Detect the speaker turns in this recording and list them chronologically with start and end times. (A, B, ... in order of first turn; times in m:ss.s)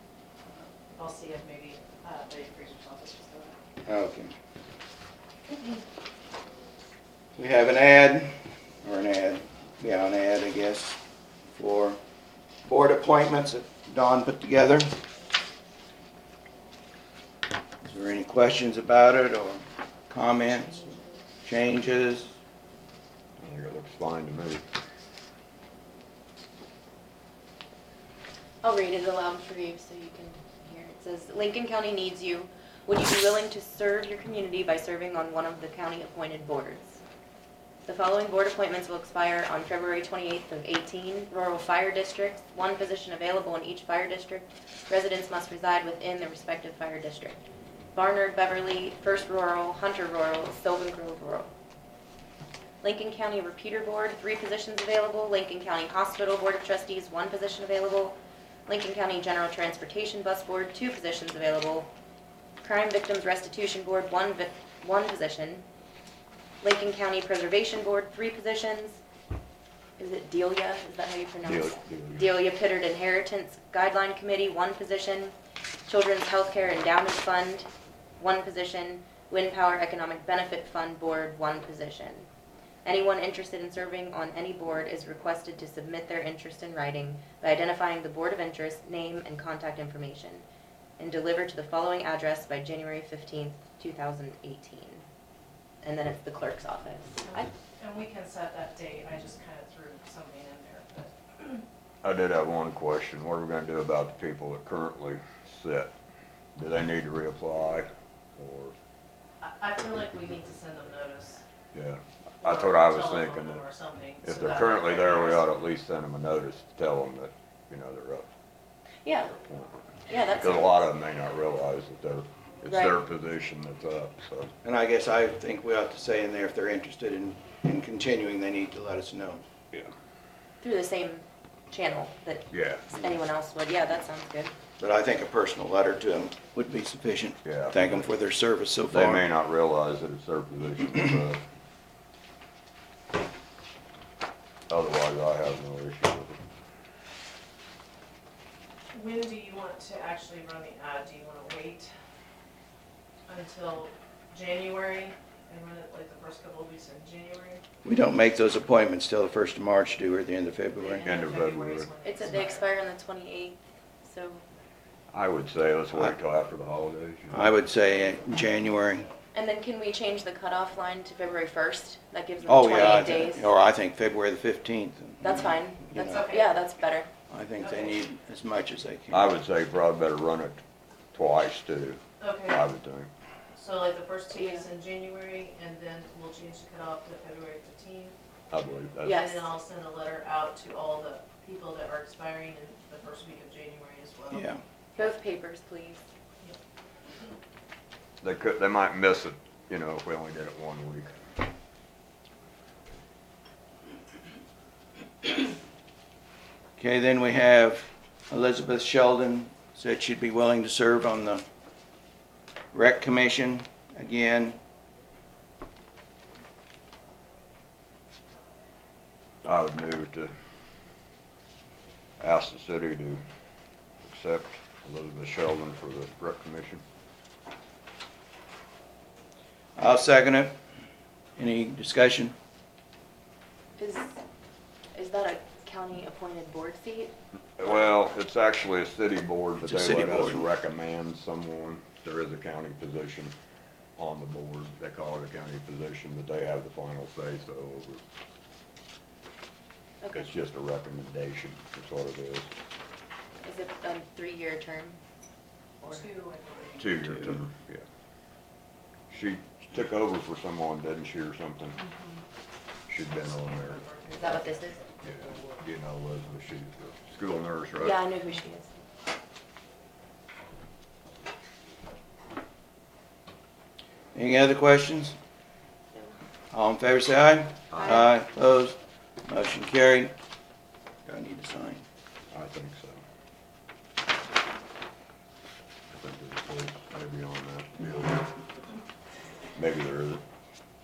0:00.9-0:03.6 A
0:03.8-0:04.3 B
0:07.4-0:11.0 B
0:11.6-0:12.0 B
0:12.6-0:14.9 B
0:17.8-0:22.3 B
0:20.7-0:21.0 A
0:23.4-0:24.6 C
0:28.6-0:30.6 A
0:28.6-0:37.0 D
0:35.9-0:36.6 A
0:37.9-0:47.4 D
0:38.0-0:38.7 A
0:40.0-0:44.2 A
0:44.9-0:47.2 A
0:48.0-0:51.3 A
0:48.0-0:51.5 D
0:52.8-0:58.0 A
0:52.8-0:58.2 D
0:58.7-1:01.9 D
0:58.7-1:01.7 A
1:02.6-1:04.1 A
1:02.6-1:05.6 D
1:06.6-1:09.0 D
1:10.0-1:15.3 D
1:10.2-1:11.5 A
1:11.4-1:12.3 C
1:12.4-1:12.7 A
1:15.9-1:17.7 D
1:18.2-1:22.3 D
1:22.8-1:30.4 D
1:24.8-1:25.1 A
1:27.2-1:30.3 A
1:31.0-1:34.6 A
1:31.0-1:35.0 D
1:35.8-1:41.6 A
1:35.9-1:37.5 D
1:42.0-1:45.9 C
1:46.6-1:48.7 C
1:49.4-1:51.4 A
1:51.7-1:53.7 C
1:52.4-1:55.5 A
1:54.2-1:58.3 C
1:59.3-2:04.5 C
2:00.1-2:00.8 D
2:00.1-2:00.4 A
2:04.6-2:09.4 B
2:10.6-2:14.5 D
2:10.6-2:11.0 A
2:12.5-2:13.0 C
2:13.1-2:13.7 A
2:14.8-2:19.3 B
2:17.4-2:18.0 C
2:18.9-2:21.4 C
2:24.7-2:26.4 C
2:28.9-2:31.9 A
2:33.3-2:37.6 A
2:37.8-2:41.1 B
2:40.8-2:43.2 A
2:41.0-2:41.9 C
2:42.0-2:44.4 D
2:45.1-2:47.6 C
2:47.3-2:49.1 B
2:49.3-2:53.5 D
2:52.1-2:53.3 A
2:52.5-2:56.3 B
2:55.2-2:57.1 D
2:55.2-2:57.0 A
2:57.3-2:59.4 B
2:57.6-2:57.9 A
2:59.1-3:00.6 C
3:01.1-3:03.1 C
3:02.2-3:02.6 A
3:03.6-3:08.1 A
3:04.3-3:04.7 D
3:08.5-3:09.4 C
3:09.0-3:09.5 D
3:09.0-3:15.9 A
3:14.3-3:14.6 B
3:15.0-3:16.0 D
3:18.2-3:21.1 C
3:26.8-3:31.4 B
3:32.7-3:34.6 B
3:39.4-3:40.3 C
3:42.2-3:43.2 C
3:44.0-3:46.8 C
3:49.8-3:50.5 B
3:51.4-3:52.3 B
3:53.8-3:54.2 D
3:55.0-3:57.1 D
3:55.5-3:56.1 A
3:57.6-4:03.3 C
3:59.6-4:00.5 B
4:04.0-4:08.0 C
4:10.1-4:12.5 C
4:13.4-4:15.0 D
4:15.8-4:17.0 A
4:16.8-4:17.8 C
4:19.1-4:21.8 C
4:21.8-4:22.2 A
4:22.9-4:24.0 C
4:23.1-4:25.4 A
4:24.1-4:24.8 D
4:25.0-4:28.0 C
4:27.8-4:28.8 D
4:27.9-4:28.4 A
4:34.1-4:35.1 B
4:36.5-4:40.1 B
4:37.7-4:38.0 C
4:41.0-4:41.8 B
4:42.3-4:43.0 C
4:45.9-4:48.3 C
4:49.6-4:50.2 C